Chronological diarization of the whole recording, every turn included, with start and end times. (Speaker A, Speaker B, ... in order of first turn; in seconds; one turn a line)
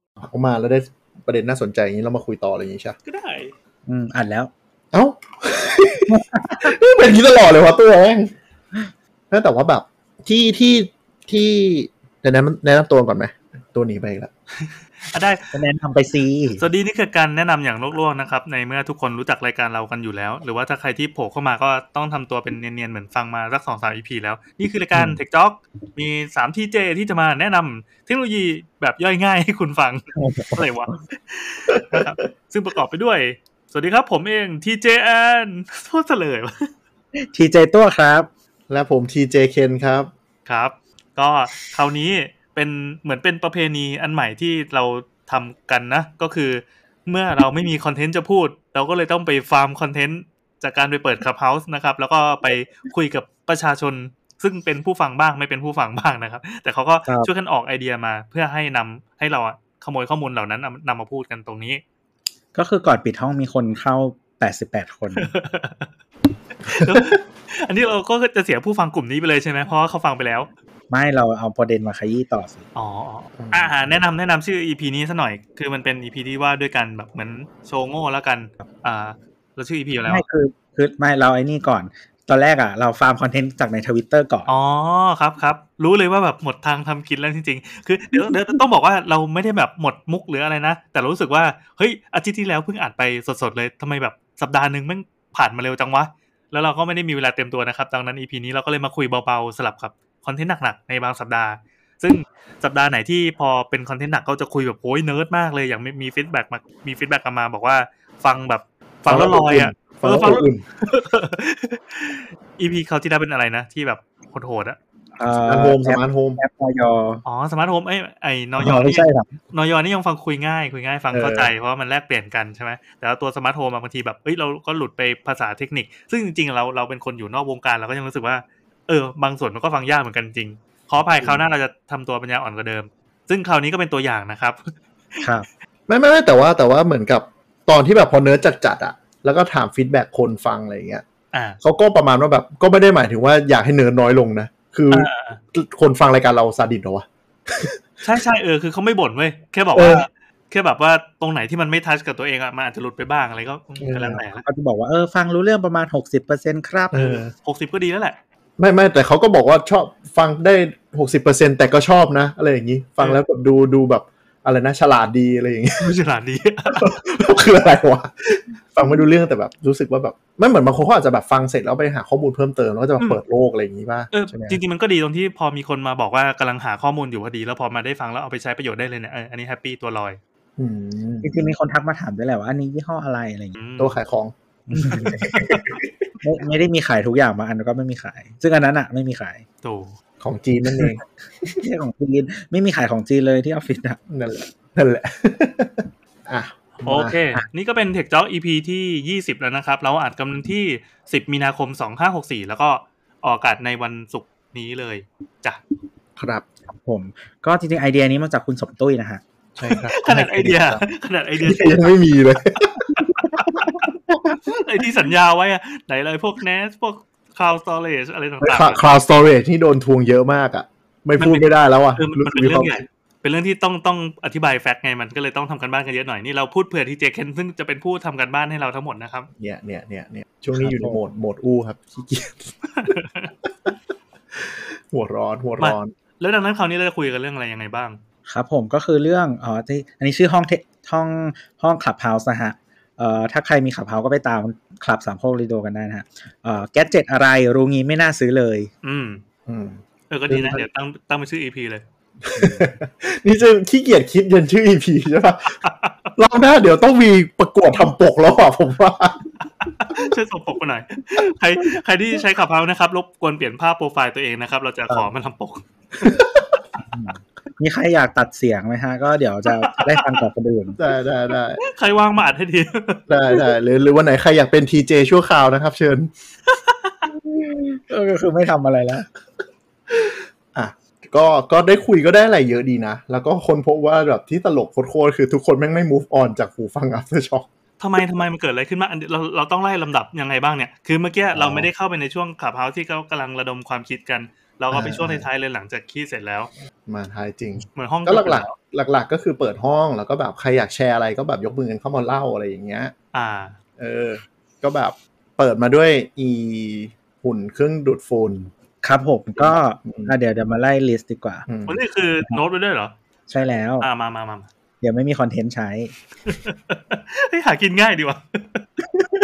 Speaker A: 0.2-3.0
Speaker B: 3.0-3.5
Speaker C: 3.9-4.5
Speaker A: 4.9-8.3
Speaker C: 6.1-6.8
Speaker A: 9.3-14.3
Speaker B: 15.1-15.5
Speaker C: 15.5-16.6
Speaker B: 16.6-36.7
Speaker C: 30.1-30.6
Speaker C: 37.2-38.3
Speaker A: 38.7-40.1
Speaker B: 40.5-61.8
Speaker C: 62.5-65.3
Speaker B: 65.1-65.9
Speaker B: 66.6-70.5
Speaker C: 70.9-72.6
Speaker B: 72.7-80.2
Speaker A: 73.4-73.7
Speaker C: 80.0-84.5
Speaker B: 84.5-114.8
Speaker C: 88.1-88.6
Speaker A: 109.1-110.6
Speaker C: 115.2-117.2
Speaker A: 115.3-116.4
Speaker B: 117.2-135.3
Speaker C: 118.6-119.3
Speaker A: 121.1-121.5
Speaker C: 135.2-135.5
Speaker A: 135.9-141.0
Speaker B: 141.3-141.6
Speaker A: 141.6-147.7
Speaker B: 144.9-145.4
Speaker B: 148.0-154.4
Speaker A: 149.8-150.1
Speaker A: 153.8-154.2
Speaker C: 154.2-157.0
Speaker A: 156.9-157.3
Speaker B: 156.9-158.2
Speaker A: 158.6-165.9
Speaker B: 165.8-166.9
Speaker A: 166.7-174.6
Speaker B: 174.1-180.2
Speaker A: 180.6-181.3
Speaker C: 181.2-183.6
Speaker B: 183.6-184.0
Speaker A: 183.8-185.9
Speaker C: 184.7-185.2
Speaker B: 184.7-185.8
Speaker C: 186.2-189.4
Speaker B: 189.6-189.9
Speaker A: 190.2-191.5
Speaker C: 191.4-194.0
Speaker A: 194.1-197.2
Speaker B: 196.8-205.6
Speaker A: 206.2-206.4
Speaker C: 206.7-209.2
Speaker A: 209.6-210.8
Speaker B: 209.9-211.9
Speaker A: 211.4-214.4
Speaker B: 212.9-219.3
Speaker A: 218.4-222.8
Speaker B: 221.2-229.3
Speaker A: 229.4-232.9
Speaker C: 230.6-231.0
Speaker B: 232.7-233.3
Speaker A: 234.3-235.9
Speaker B: 235.6-238.0
Speaker C: 238.3-248.7
Speaker B: 248.8-249.2
Speaker A: 249.5-250.6
Speaker B: 250.1-251.8
Speaker A: 252.2-255.6
Speaker C: 252.3-252.7
Speaker B: 255.6-256.1
Speaker A: 256.1-259.3
Speaker B: 259.6-265.6
Speaker A: 266.0-266.5
Speaker C: 266.8-270.8
Speaker B: 269.5-270.2
Speaker A: 270.8-271.6
Speaker B: 271.6-273.1
Speaker A: 273.1-276.1
Speaker B: 276.5-277.0
Speaker C: 277.2-279.1
Speaker A: 279.9-287.5
Speaker B: 287.8-296.5
Speaker A: 291.3-291.7
Speaker A: 294.7-295.2
Speaker A: 296.9-302.9
Speaker B: 297.7-298.5
Speaker B: 303.1-303.6
Speaker A: 303.8-308.5
Speaker C: 308.8-311.5
Speaker A: 309.4-310.1
Speaker A: 311.5-311.8
Speaker B: 311.7-312.9
Speaker C: 313.3-313.9
Speaker B: 313.8-314.5
Speaker C: 314.8-315.9
Speaker B: 316.2-318.7